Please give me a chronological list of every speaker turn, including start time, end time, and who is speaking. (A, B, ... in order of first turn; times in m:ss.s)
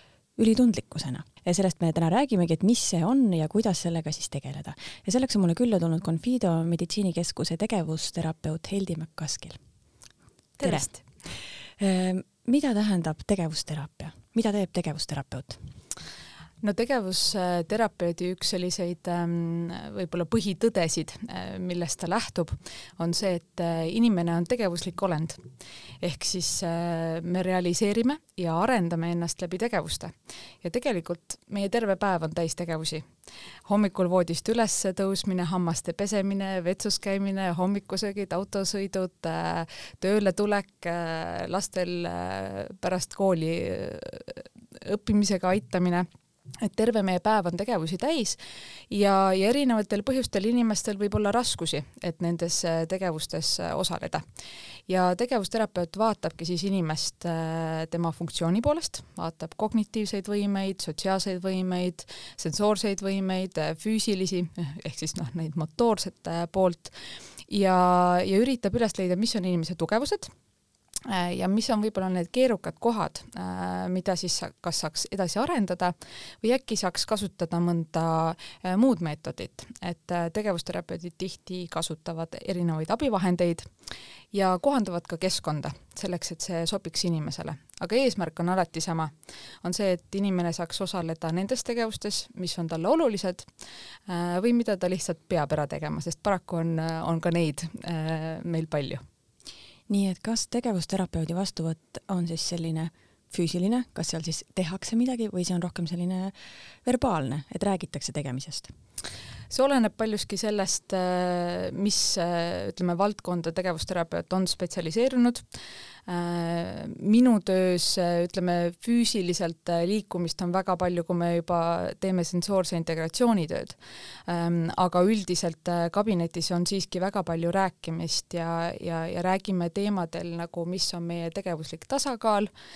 0:00.4-0:09.6 A
0:10.6-0:11.0 B
0:10.6-0:10.9 A
0:11.8-0:15.6 A
0:16.6-0:25.4 B
0:26.0-0:33.1 B
0:33.7-0:46.1 B
0:46.6-0:48.4 B
0:48.9-0:54.2 B
0:54.9-1:06.9 B
1:07.5-1:10.3 B
1:11.1-1:23.7 B
1:24.3-1:33.5 B
1:34.1-1:39.0 B
1:39.9-1:48.7 A
1:49.5-1:55.4 B
1:56.1-2:12.5 B